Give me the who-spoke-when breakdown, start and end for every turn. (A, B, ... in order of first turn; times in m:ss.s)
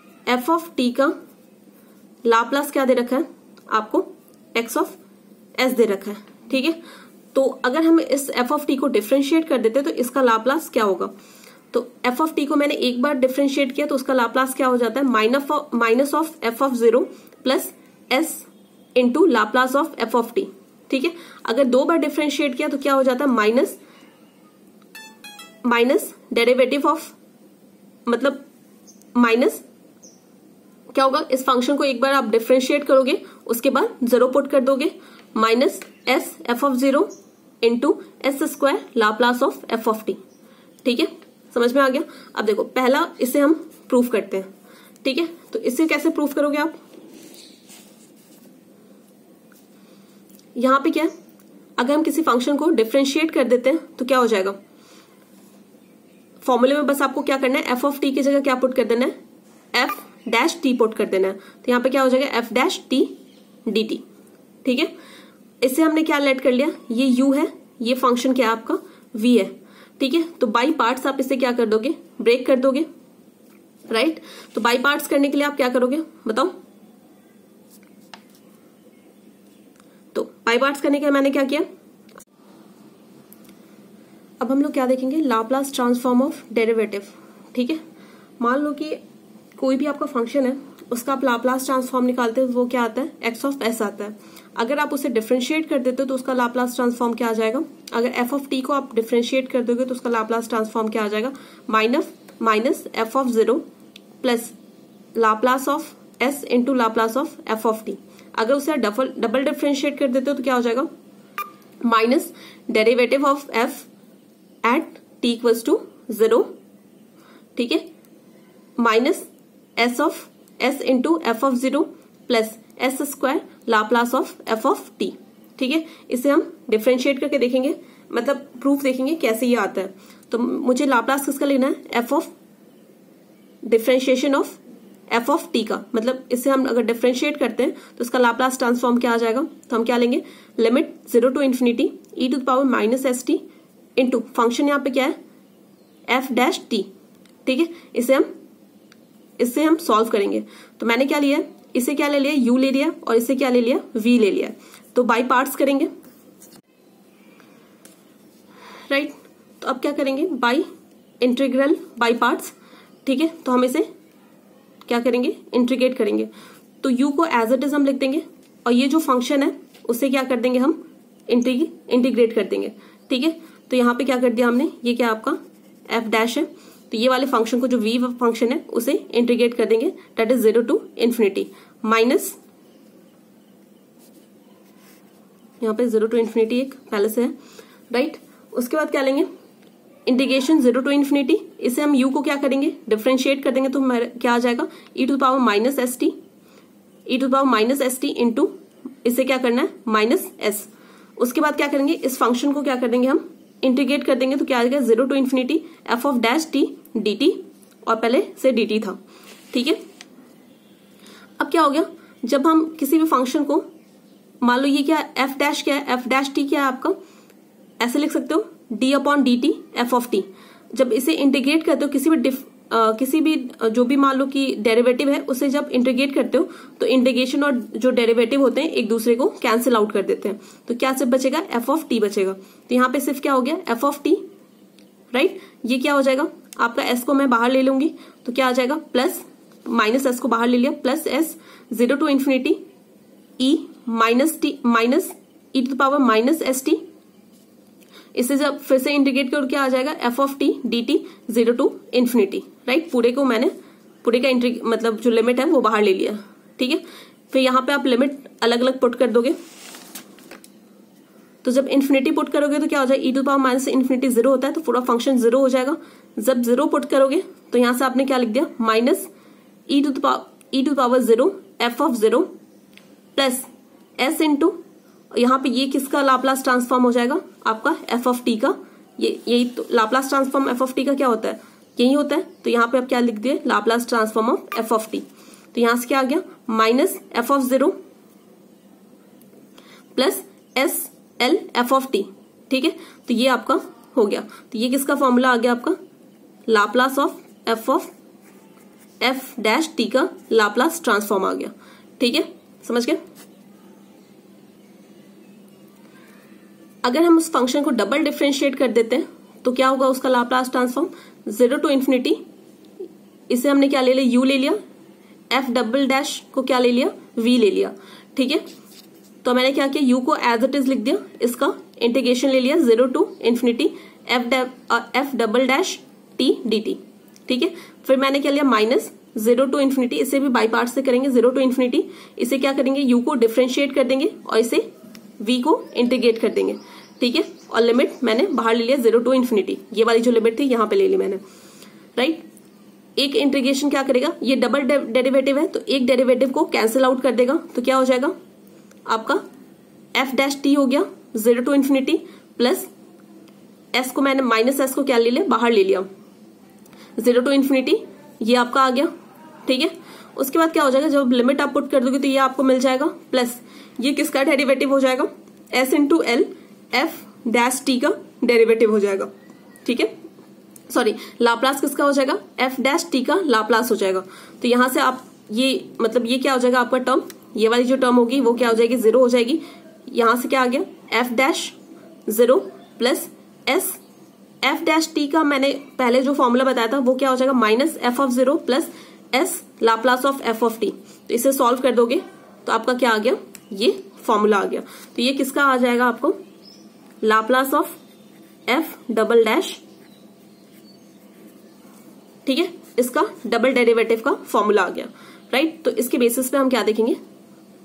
0:00.3-0:01.1 A
0:02.2-0:05.0 A
0:05.6-0:06.8 A
0:07.3-0:11.1 A
0:11.7-0:23.8 A
0:25.6-0:27.2 A
0:28.1-0:28.4 A
0:29.2-0:29.6 A
0:30.9-0:37.1 A
0:37.6-0:40.2 A
0:40.8-0:44.5 A
0:45.0-0:46.8 A
0:50.6-0:51.1 A
0:51.8-0:54.6 A
0:56.4-0:59.1 A
0:59.7-1:03.1 A
1:03.7-1:04.0 A
1:04.6-1:04.9 A
1:05.6-1:12.9 A
1:13.9-1:16.6 A
1:20.1-1:21.7 A
1:24.4-1:27.8 A
1:28.4-1:29.0 A
1:29.6-1:43.6 A
1:44.2-1:44.6 A
1:45.2-1:50.9 A
1:51.8-1:53.9 A
1:54.6-1:56.5 A
1:57.6-1:57.9 A
1:58.8-2:12.3 A
2:13.6-2:23.4 A
2:24.0-2:25.2 A
2:26.1-2:26.9 A
2:27.5-2:28.3 A
2:29.4-2:35.9 A
2:38.9-2:40.7 A
2:41.2-2:42.5 A
2:43.0-2:43.9 A
2:44.8-2:46.3 A
2:46.8-3:02.4 A
3:05.6-3:07.3 A
3:07.9-3:09.3 A
3:10.1-3:16.2 A
3:17.1-3:18.5 A
3:19.0-3:29.0 A
3:29.5-3:29.8 A
3:31.4-3:33.6 A
3:34.4-3:37.0 A
3:37.8-3:54.2 A
3:55.1-4:02.6 A
4:03.4-4:06.8 A
4:08.2-4:13.5 A
4:14.0-4:19.4 A
4:21.4-4:29.1 A
4:29.7-4:32.3 A
4:33.2-4:33.5 A
4:34.0-4:34.6 A
4:35.1-4:47.8 A
4:50.0-4:55.8 A
4:56.5-4:57.9 A
4:59.0-5:03.0 A
5:06.8-5:12.2 A
5:13.3-5:14.6 A
5:15.3-5:18.4 A
5:19.2-5:34.7 A
5:35.2-5:41.2 A
5:42.0-5:42.2 A
5:43.0-5:48.1 A
5:48.9-5:49.2 A
5:50.0-5:52.7 A
5:53.7-5:55.9 A
5:57.0-5:58.9 A
5:59.5-6:09.1 A
6:09.6-6:09.9 A
6:10.7-6:21.6 A
6:22.1-6:23.8 A
6:24.4-6:36.2 A
6:37.0-6:37.8 A
6:38.5-6:39.6 A
6:42.3-6:47.0 A